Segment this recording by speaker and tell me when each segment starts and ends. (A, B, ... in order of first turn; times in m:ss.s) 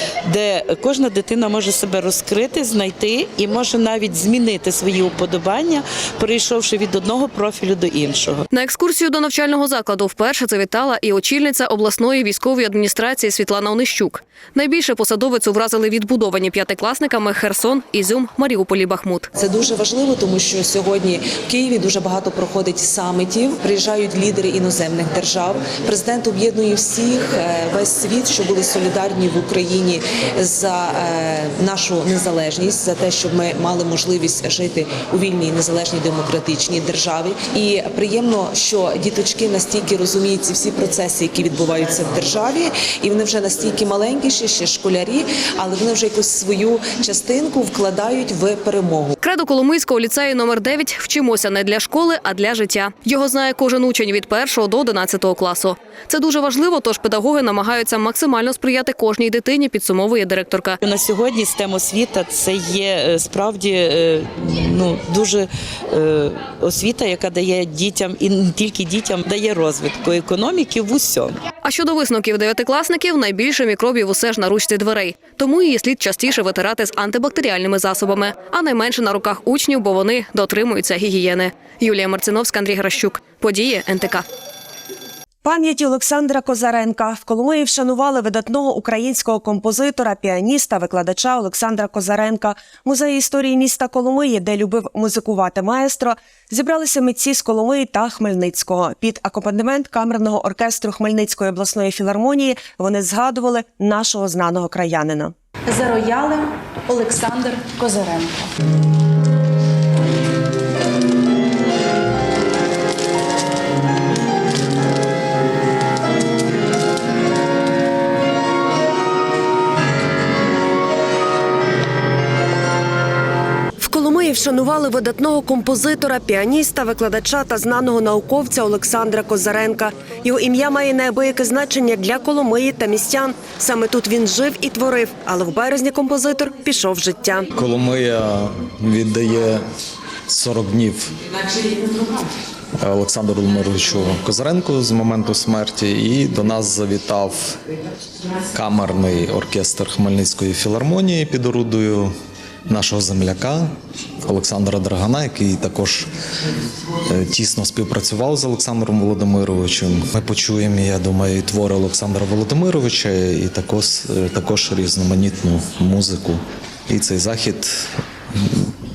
0:00.3-0:08.5 A
0:08.5-0:19.3 B
0:19.4-0:49.2 C
0:49.2-1:00.8 B
1:00.8-1:11.4 A
1:11.6-1:24.2 B
1:25.4-1:45.3 D
2:03.8-2:17.5 D
2:17.6-2:19.6 E
2:20.3-2:21.2 E
2:22.8-2:27.6 E
2:28.5-2:32.2 E
2:32.7-2:36.1 E
2:37.1-2:48.7 E